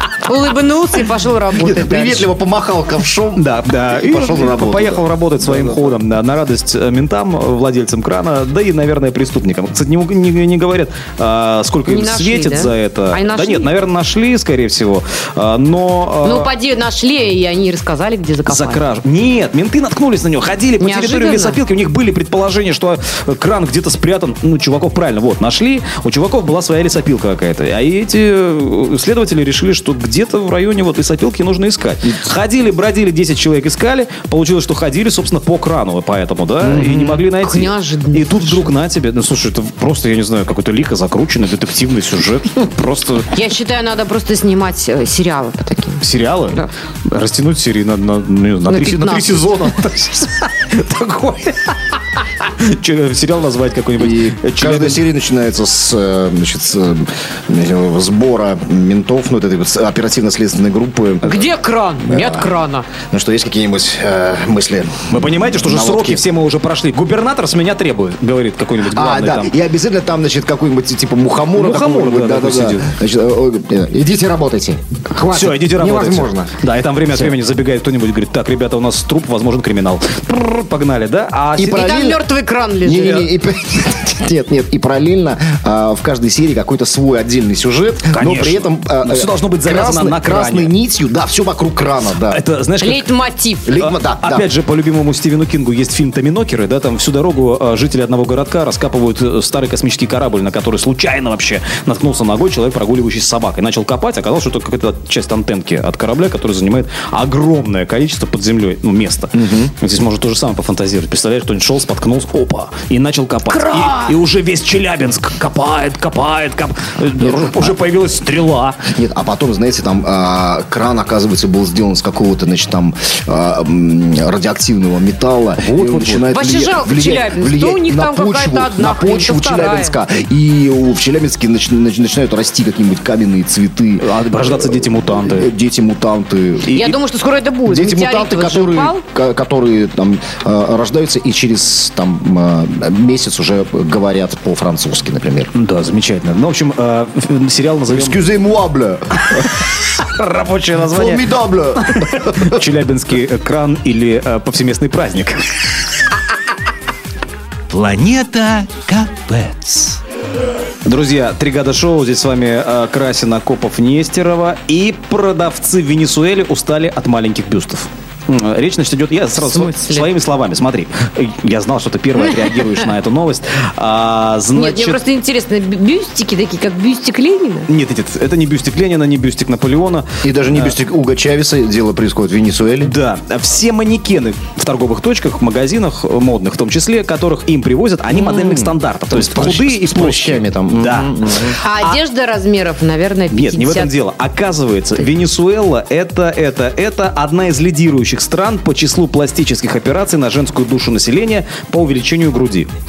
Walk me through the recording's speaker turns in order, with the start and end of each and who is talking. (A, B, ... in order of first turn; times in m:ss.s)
0:00.2-0:02.3 A
0:01.6-0:06.0 B
0:03.4-0:16.5 C
0:11.8-0:13.7 A
0:16.2-0:18.8 A
0:18.4-0:43.3 C
0:20.8-0:21.6 A
0:36.6-0:38.6 A
0:43.3-0:46.7 A
0:46.0-0:55.0 C
0:48.7-0:49.7 A
0:54.0-1:01.4 B
1:01.2-1:02.9 A
1:02.0-1:02.5 B
1:03.1-1:06.2 B
1:05.1-1:09.5 C
1:08.8-1:16.5 B
1:11.6-1:12.9 C
1:15.2-1:21.8 C
1:21.6-1:22.2 B
1:21.7-1:23.3 A
1:22.8-1:32.4 B
1:28.1-1:30.7 C
1:32.2-1:33.1 C
1:32.8-1:33.7 A
1:33.6-1:34.4 B
1:33.7-1:58.8 C
1:49.3-1:49.7 B
1:53.6-1:54.1 A
1:57.2-1:57.8 B
1:58.9-2:16.8 B
2:05.6-2:06.4 C
2:06.3-2:10.0 A
2:14.0-2:15.5 C
2:16.7-2:17.0 C
2:16.7-2:19.0 A
2:17.6-2:25.5 B
2:25.5-2:28.2 C
2:27.9-2:29.6 B
2:29.2-2:35.6 C
2:30.9-2:32.6 B
2:37.7-2:40.0 D
2:40.8-2:55.0 C
2:49.4-2:50.1 A
2:54.5-2:57.7 A
2:57.7-3:00.8 C
3:00.2-3:02.9 B
3:02.8-3:12.0 C
3:08.1-3:11.6 B
3:11.6-3:13.9 A
3:13.3-3:22.7 C